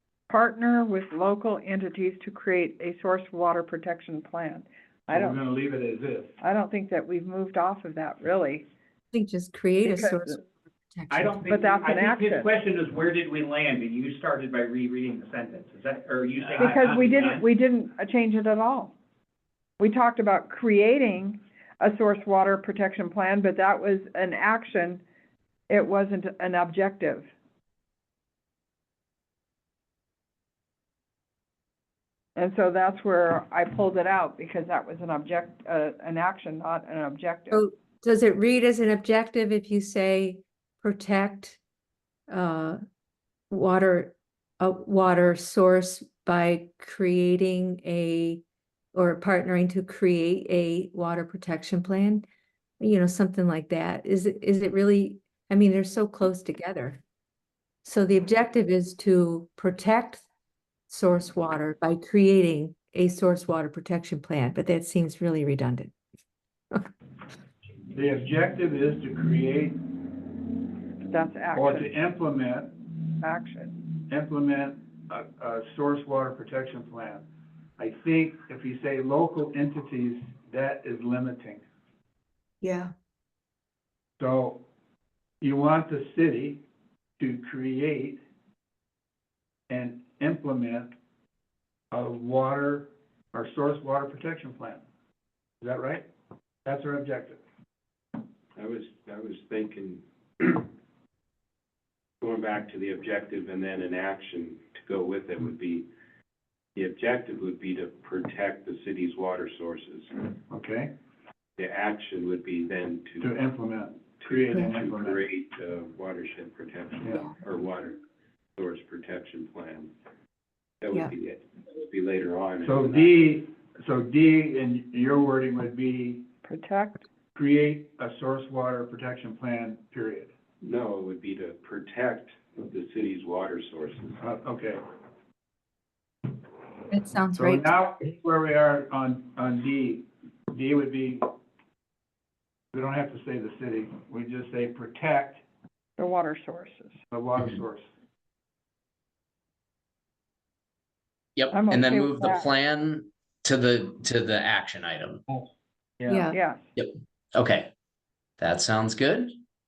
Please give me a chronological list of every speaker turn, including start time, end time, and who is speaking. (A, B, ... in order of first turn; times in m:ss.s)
0:00.3-0:05.4 A
0:05.1-0:06.3 B
0:06.4-0:08.6 A
0:09.1-0:11.5 C
0:09.8-0:10.4 A
0:11.1-0:17.4 D
0:11.4-0:12.5 A
0:16.5-0:18.9 A
0:19.8-0:25.0 A
0:25.7-0:27.3 A
0:32.4-0:37.6 A
0:37.5-0:41.6 C
0:42.3-0:42.8 C
0:43.5-0:48.4 C
0:48.9-0:52.2 C
0:52.8-0:57.0 C
0:57.8-1:00.2 C
1:00.9-1:05.9 C
1:07.9-1:09.8 B
1:11.1-1:11.9 A
1:11.5-1:12.7 B
1:13.2-1:13.8 A
1:14.1-1:17.2 B
1:17.8-1:21.6 B
1:22.6-1:22.9 C
1:24.2-1:24.6 B
1:25.4-1:26.6 B
1:27.2-1:28.2 B
1:29.7-1:30.9 B
1:31.9-1:34.8 B
1:35.6-1:36.0 B
1:36.6-1:37.4 B
1:38.6-1:40.7 E
1:42.2-1:45.9 E
1:46.8-1:50.1 E
1:50.5-1:50.9 B
1:51.6-1:53.3 E
1:53.2-1:55.3 B
1:54.2-1:58.0 E
1:57.0-1:57.3 B
1:58.6-1:59.9 E
2:00.8-2:03.2 E
2:02.6-2:06.3 B
2:06.4-2:07.0 A
2:07.3-2:10.3 B
2:10.6-2:14.2 E
2:14.2-2:14.8 B
2:16.9-2:17.7 C
2:17.3-2:21.4 B
2:22.7-2:25.4 B
2:26.0-2:27.0 A
2:27.1-2:27.8 B
2:31.4-2:35.2 F
2:31.5-2:32.5 A
2:36.0-2:36.2 B
2:36.1-2:36.4 C
2:36.3-2:36.6 A
2:36.8-2:37.7 F
2:38.4-2:39.3 F